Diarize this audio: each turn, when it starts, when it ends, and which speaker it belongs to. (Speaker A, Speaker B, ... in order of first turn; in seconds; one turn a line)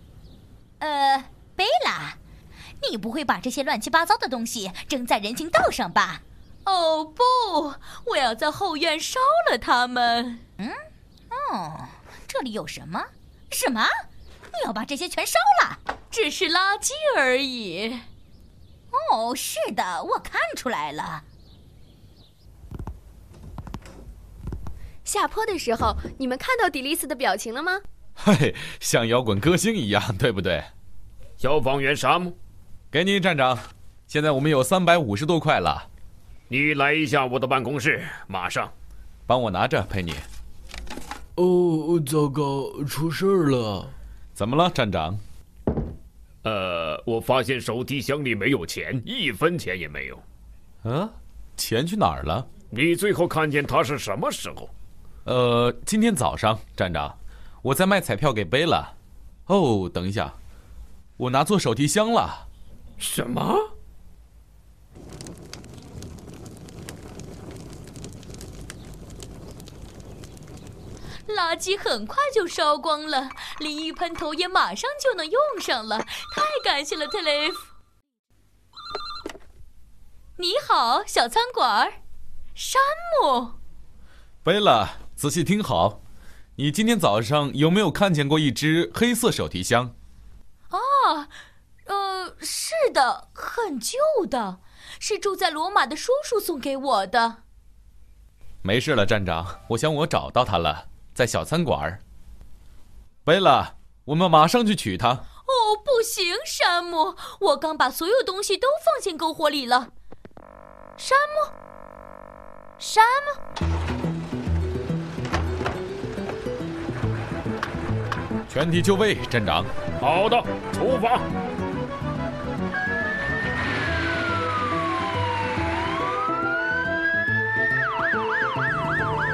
Speaker A: 0.8-2.2
Speaker A: 2.8-6.2
Speaker B: 6.7-10.4
Speaker A: 11.3-13.9
Speaker A: 14.5-15.8
Speaker B: 16.1-18.1
Speaker A: 18.9-21.2
Speaker C: 25.1-27.8
Speaker D: 28.2-30.7
Speaker E: 31.4-32.4
Speaker D: 32.9-35.9
Speaker E: 36.5-38.7
Speaker D: 39.3-40.3
Speaker F: 41.4-43.9
Speaker D: 44.4-45.2
Speaker E: 46.4-50.2
Speaker D: 50.8-52.5
Speaker E: 52.7-54.7
Speaker D: 55.3-58.9
Speaker D: 59.5-60.4
Speaker D: 61.2-62.5
Speaker E: 63.0-63.6
Speaker B: 71.3-77.6
Speaker B: 80.4-82.0
Speaker B: 82.6-83.5
Speaker D: 84.4-86.0
Speaker D: 86.6-89.9
Speaker B: 90.7-91.3
Speaker B: 91.9-97.4
Speaker D: 98.6-102.0
Speaker D: 103.3-105.2
Speaker B: 105.5-109.9
Speaker B: 111.0-111.5
Speaker B: 112.8-113.4
Speaker D: 118.5-119.7
Speaker E: 120.0-121.3